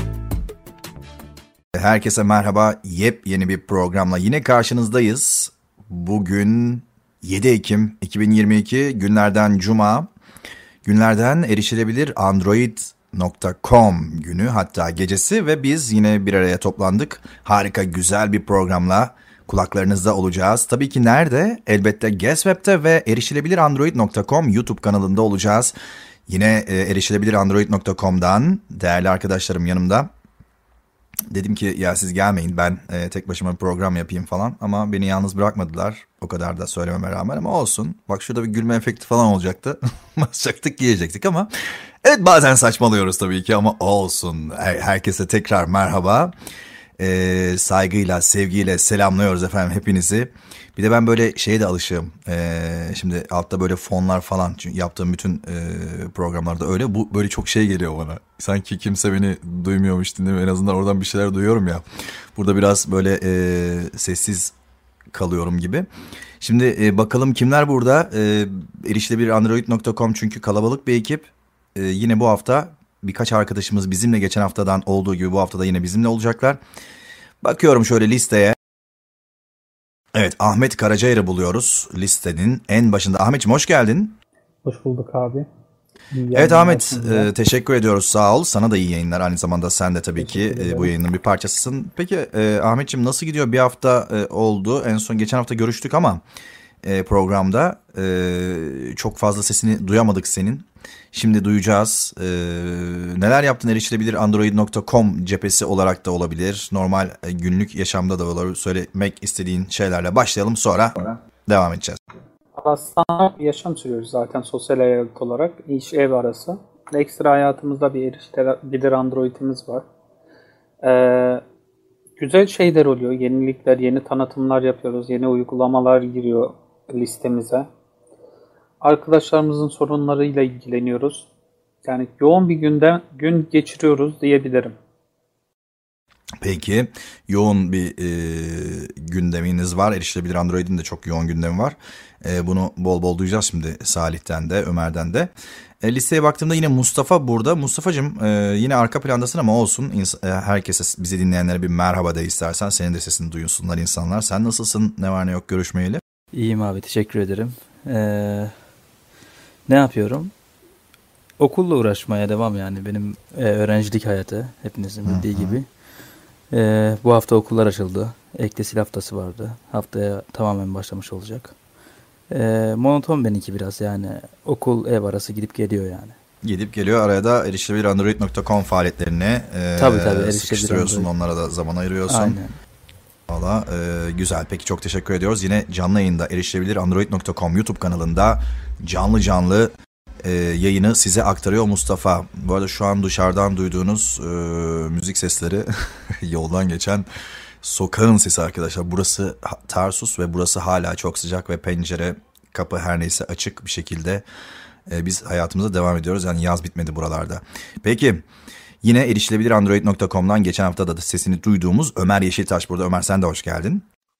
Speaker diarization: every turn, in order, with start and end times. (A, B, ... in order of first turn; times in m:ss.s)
0:01.8-0:10.1 A
0:10.8-0:25.7 A
0:26.3-0:30.1 A
0:31.3-0:41.5 A
0:42.0-0:46.3 A
0:47.0-1:01.8 A
1:02.4-1:04.5 A
1:05.1-1:05.9 A
1:06.4-1:16.6 A
1:17.4-1:18.6 A
1:20.1-1:24.2 A
1:24.6-1:25.5 B
1:26.1-1:27.3 B
1:26.3-1:36.2 A
1:30.2-1:30.9 B
1:36.8-1:52.0 A
1:52.6-1:59.8 B
2:00.8-2:01.4 B
2:02.2-2:07.7 B
2:08.8-2:11.3 B
2:11.8-2:14.8 B
2:16.4-2:25.3 A
2:25.8-2:36.0 A
2:36.3-2:38.6 C
2:39.7-2:40.3 C
2:41.4-2:51.6 C
2:45.1-2:45.6 A
2:52.3-2:56.2 C
2:56.4-3:02.4 A
2:59.8-3:01.1 C
3:02.1-3:02.6 C
3:03.3-3:15.7 A
3:16.2-3:17.1 A
3:17.6-3:24.2 A
3:24.9-3:28.2 A
3:28.8-3:33.8 A